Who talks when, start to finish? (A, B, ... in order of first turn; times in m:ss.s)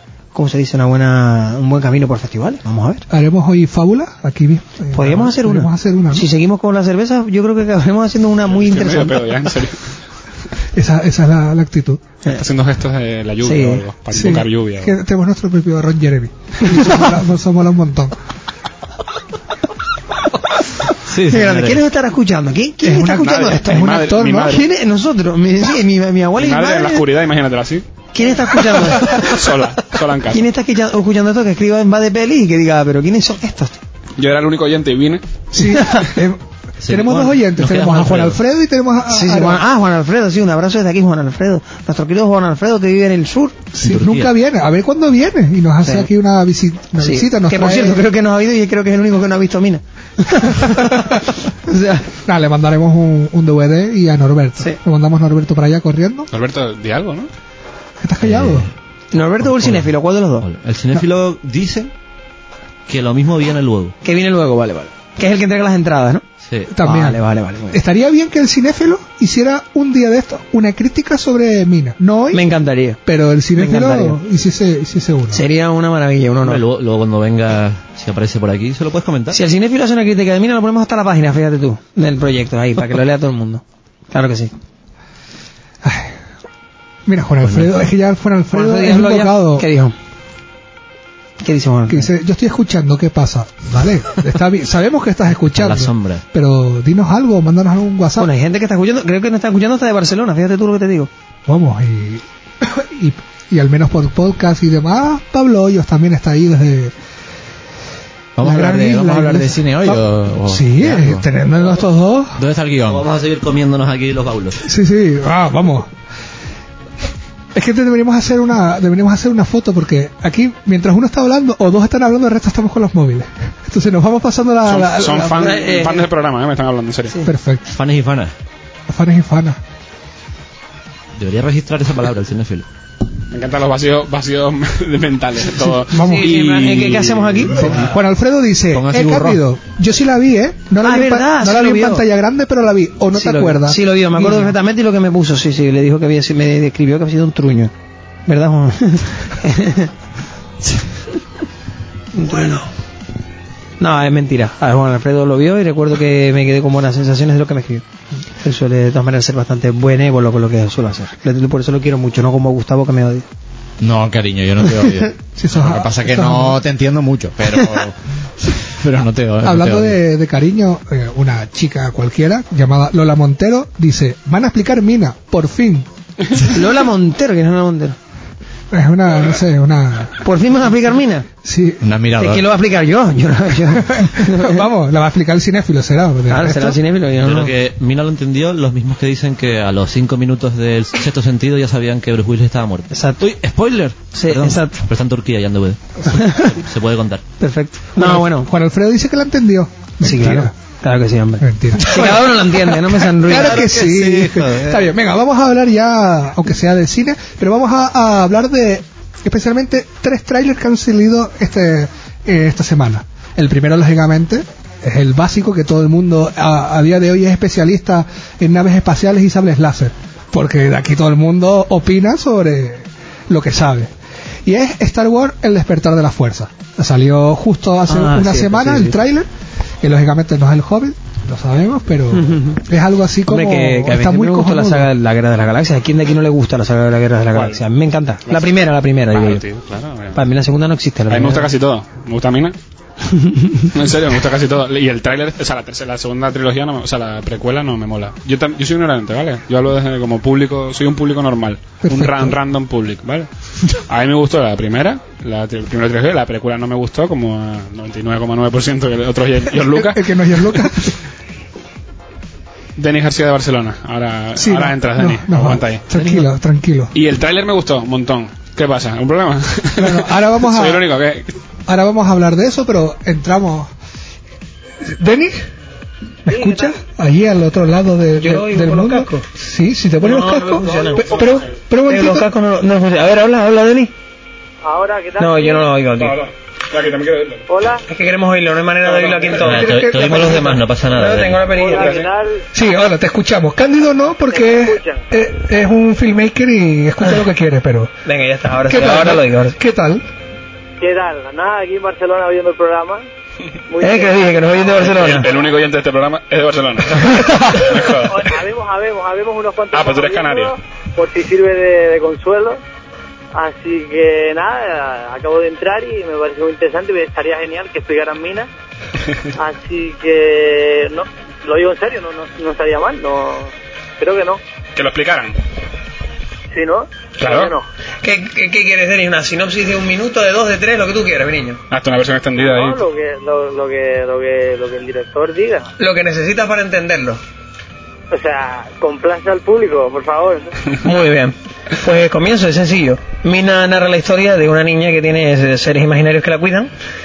0:00.3-0:03.0 A
0:03.1-0:06.3 B
0:04.9-0:09.2 A
0:08.5-0:09.8 C
0:10.7-0:12.0 B
0:12.3-0:15.0 C
0:13.4-0:13.8 A
0:14.1-0:18.2 B
0:16.6-0:17.0 A
0:21.1-0:21.6 D
0:21.2-0:23.8 A
0:22.8-0:24.6 B
0:23.2-0:24.6 C
0:24.4-0:27.0 A
0:26.4-0:27.8 C
0:28.1-0:29.4 A
0:28.6-0:30.4 C
0:30.3-0:33.8 A
0:34.2-0:35.2 C
0:35.5-0:39.6 B
0:36.8-0:38.4 E
0:39.1-0:43.6 A
0:43.7-0:48.0 B
0:43.8-0:44.3 E
0:47.0-0:52.1 A
0:50.5-0:51.2 B
0:52.2-0:56.3 B
0:56.3-0:57.3 C
0:58.0-0:58.7 B
0:58.2-0:58.6 E
0:59.1-1:00.4 A
0:59.4-1:01.9 E
1:02.9-1:03.9 E
1:04.0-1:06.2 A
1:06.4-1:06.7 E
1:06.7-1:12.4 B
1:06.8-1:07.8 A
1:12.3-1:13.0 A
1:13.0-1:15.4 B
1:13.6-1:14.2 A
1:15.3-1:16.6 A
1:16.4-1:19.4 E
1:19.3-1:24.5 A
1:25.8-1:26.2 B
1:27.0-1:29.7 B
1:27.4-1:27.7 E
1:28.5-1:29.9 A
1:31.4-1:32.1 A
1:31.9-1:38.3 B
1:35.5-1:36.2 E
1:38.2-1:41.1 A
1:41.5-1:46.9 B
1:48.4-1:51.2 D
1:48.4-1:52.4 B
1:52.4-1:53.0 D
1:52.8-1:54.6 E
1:54.6-1:55.9 B
1:57.5-2:05.5 B
2:04.6-2:07.1 C
2:05.3-2:06.0 A
2:07.2-2:07.7 B
2:07.7-2:08.3 E
2:08.9-2:09.6 B
2:11.2-2:12.6 E
2:13.3-2:17.5 C
2:15.9-2:16.3 B
2:15.9-2:17.8 A
2:17.5-2:24.5 B
2:18.7-2:19.4 D
2:20.8-2:22.0 A
2:23.1-2:27.7 A
2:28.3-2:29.9 A
2:32.1-2:32.7 A
2:33.8-2:37.8 A
2:38.4-2:43.2 A
2:43.8-2:47.9 D
2:45.4-2:46.6 B
2:48.5-2:50.0 D
2:49.4-2:55.9 B
2:56.4-2:58.0 A
2:58.7-3:00.2 B
3:00.2-3:01.3 A
3:01.4-3:01.8 B
3:01.8-3:02.4 D
3:02.2-3:04.6 A
3:03.8-3:06.8 B
3:06.3-3:07.5 A
3:07.2-3:17.2 E
3:12.9-3:13.2 A
3:14.1-3:14.8 A
3:16.1-3:16.6 A
3:17.4-3:18.5 A
3:18.0-3:20.5 B
3:20.0-3:24.7 A
3:21.4-3:43.9 B
3:23.5-3:24.3 E
3:44.4-3:49.3 B
3:47.9-3:49.0 A
3:49.8-3:54.9 B
3:52.1-3:52.6 A
3:53.3-3:59.4 A
3:57.3-3:57.6 C
3:58.3-4:00.2 C
4:00.1-4:01.5 A
4:01.1-4:02.6 C
4:03.2-4:03.7 A
4:03.7-4:20.6 C
4:11.8-4:12.4 B
4:19.7-4:21.0 B
4:22.8-4:25.9 C
4:24.4-4:26.9 B
4:26.9-4:31.3 C
4:29.8-4:30.9 B
4:31.7-4:33.7 B
4:34.8-4:35.4 B
4:36.2-4:42.3 B
4:36.3-4:36.7 F
4:38.2-4:39.2 A
4:40.0-4:41.3 A
4:41.8-4:43.9 A
4:44.6-4:45.7 F
4:45.2-4:46.2 A
4:46.0-4:47.4 C
4:47.5-4:47.8 F
4:47.9-4:52.0 A
4:48.9-4:49.3 C
4:49.4-4:50.5 B
4:49.4-4:51.5 E
4:51.5-4:52.4 F
4:51.7-4:52.1 C
4:52.5-4:57.9 B
4:54.3-4:55.0 F
4:58.0-4:59.6 A
4:58.7-5:00.0 B
5:00.8-5:03.0 F
5:03.7-5:05.4 F
5:03.8-5:05.3 A
5:04.8-5:08.3 C
5:07.0-5:07.6 A
5:08.1-5:12.6 F
5:09.7-5:10.5 C
5:13.3-5:18.5 F
5:19.3-5:24.4 F
5:24.8-5:25.4 C
5:26.5-5:27.6 F
5:27.2-5:27.5 C
5:28.0-5:31.6 A
5:31.7-5:32.8 C
5:32.4-5:35.7 F
5:35.8-5:37.2 A
5:38.1-5:40.5 F
5:40.8-5:46.7 A